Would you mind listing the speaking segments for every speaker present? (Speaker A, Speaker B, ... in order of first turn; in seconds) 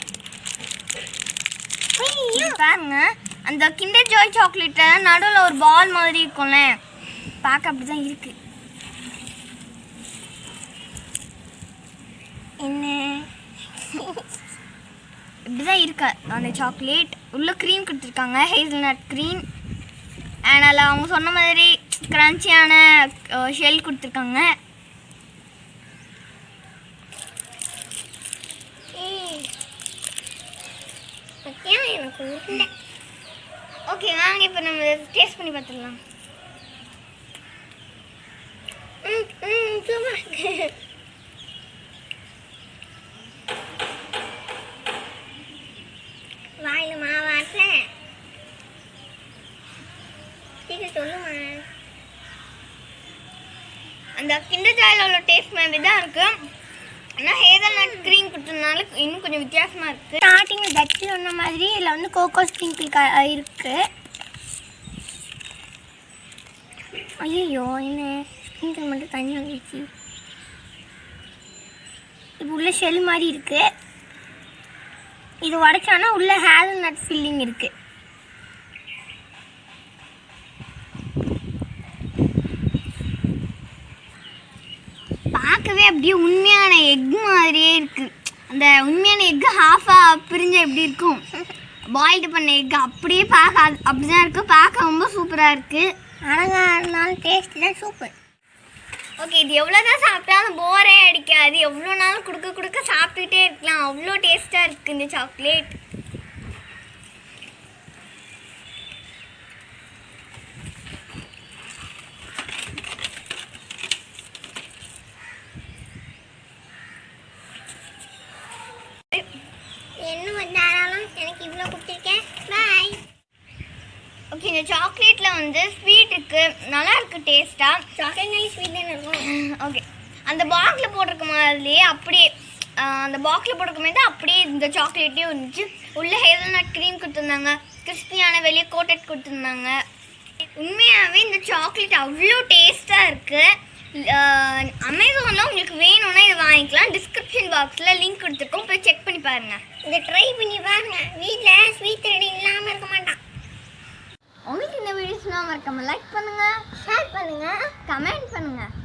Speaker A: 2.0-2.6, 12.6-13.3, 13.9-14.2, 28.9-29.5, 31.4-32.7, 39.0-40.7, 46.6-47.9, 50.7-51.6, 57.7-58.1, 60.2-63.8, 67.2-69.9, 72.4-73.7, 75.4-77.7, 96.2-98.1, 120.0-123.0, 128.0-129.3, 149.8-153.2, 156.8-157.7
Speaker B: 2.3-6.8, 7.4-8.3, 15.5-19.4, 20.5-24.5, 33.9-36.0, 54.2-56.3, 57.2-60.2, 85.3-91.2, 91.9-95.9, 99.2-105.7, 124.3-127.8, 129.2-139.8, 140.6-149.6, 154.5-156.6, 157.8-158.7